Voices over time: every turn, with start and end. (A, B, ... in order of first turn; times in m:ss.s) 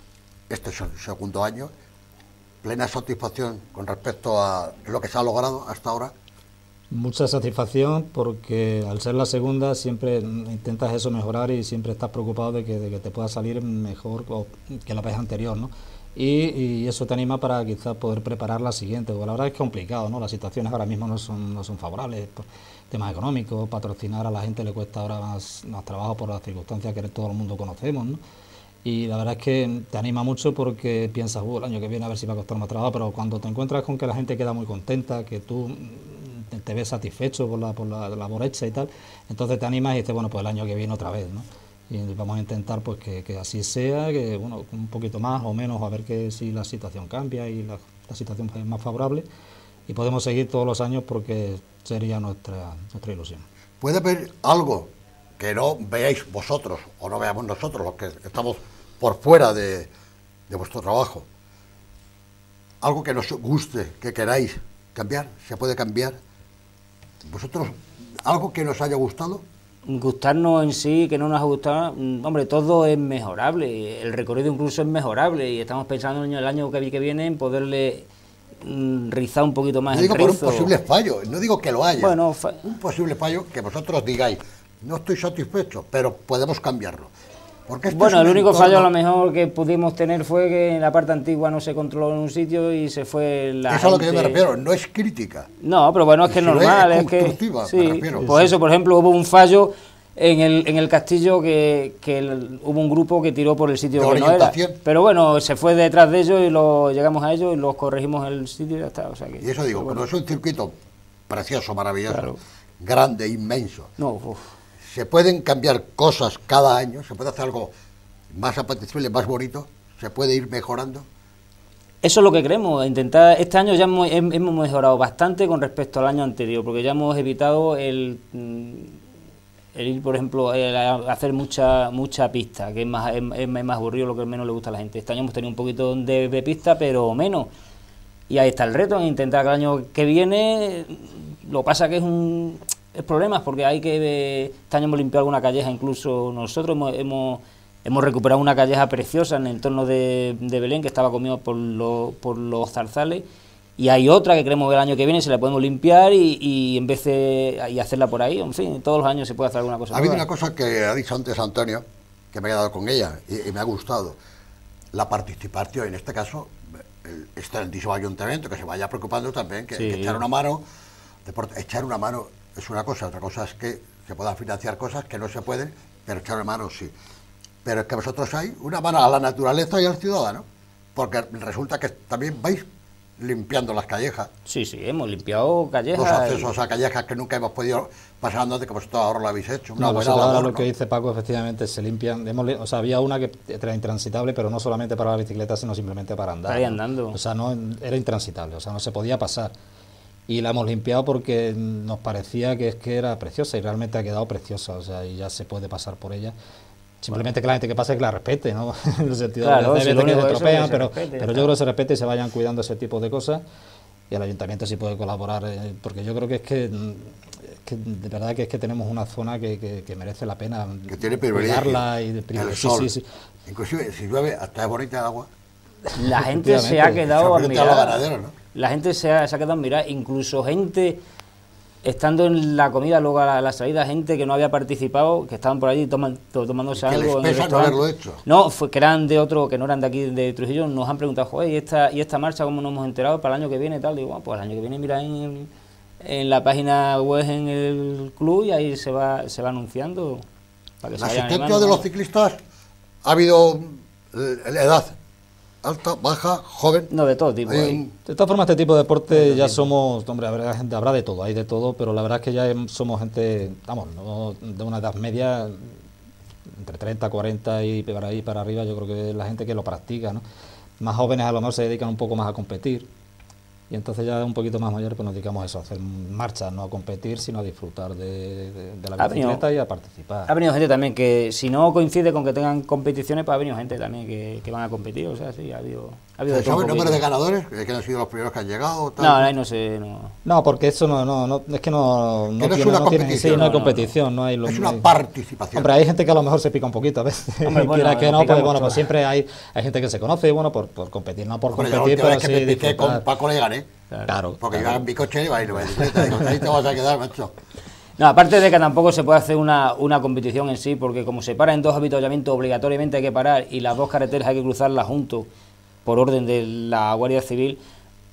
0:00.5-0:01.7 A
0:02.6-0:06.1 A
0:06.9-0:28.2 B
0:28.8-0:49.2 B
0:49.9-0:53.4 B
0:53.8-0:59.9 A
1:00.5-1:01.2 A
1:02.8-1:06.2 A
1:07.2-1:09.4 A
1:09.8-1:18.1 C
1:18.6-1:20.7 C
1:19.9-1:27.1 A
1:22.0-1:22.7 C
1:27.7-1:28.9 A
1:27.9-1:34.4 C
1:33.7-1:35.5 A
1:35.6-1:50.1 C
1:36.2-1:38.3 A
1:38.2-1:38.5 B
1:43.9-1:44.8 A
1:49.4-1:50.7 A
1:51.3-1:53.9 A
1:52.1-1:52.4 C
1:54.0-1:54.4 C
1:54.9-1:57.7 A
1:58.3-2:01.0 A
2:02.0-2:09.0 C
2:09.8-2:17.5 C
2:18.3-2:33.2 C
2:33.8-2:40.2 C
2:39.9-2:44.2 A
2:44.9-2:50.6 A
2:49.8-2:50.2 C
2:51.2-2:56.9 A
2:57.6-3:00.4 A
3:00.9-3:02.6 A
3:03.2-3:04.3 A
3:04.4-3:06.5 C
3:05.9-3:10.7 A
3:09.8-3:19.5 B
3:16.5-3:17.2 C
3:20.3-3:26.3 B
3:27.0-3:33.4 B
3:29.4-3:31.5 C
3:34.1-3:43.0 B
3:40.9-3:42.9 A
3:43.4-3:45.3 A
3:46.0-3:51.0 C
3:46.0-3:47.0 B
3:47.1-3:48.3 A
3:51.8-4:05.5 C
3:56.7-3:58.2 A
4:06.0-4:10.2 C
4:10.8-4:11.8 C
4:11.0-4:12.4 A
4:13.0-4:15.0 A
4:15.6-4:16.9 A
4:16.9-4:17.8 C
4:17.4-4:17.9 A
4:18.0-4:25.8 B
4:19.1-4:19.7 C
4:26.5-4:30.2 B
4:30.8-4:32.8 B
4:33.7-4:40.3 B
4:39.0-4:39.4 C
4:40.3-4:47.0 C
4:46.3-4:49.3 A
4:49.0-4:50.1 C
4:50.2-4:54.9 B
4:52.4-4:53.6 A
4:53.2-4:53.9 C
4:54.4-4:55.7 A
4:55.5-5:03.1 B
4:57.4-4:58.9 C
5:01.5-5:03.7 A
5:04.0-5:04.8 B
5:04.4-5:07.3 A
5:08.0-5:15.3 C
5:15.8-5:17.6 C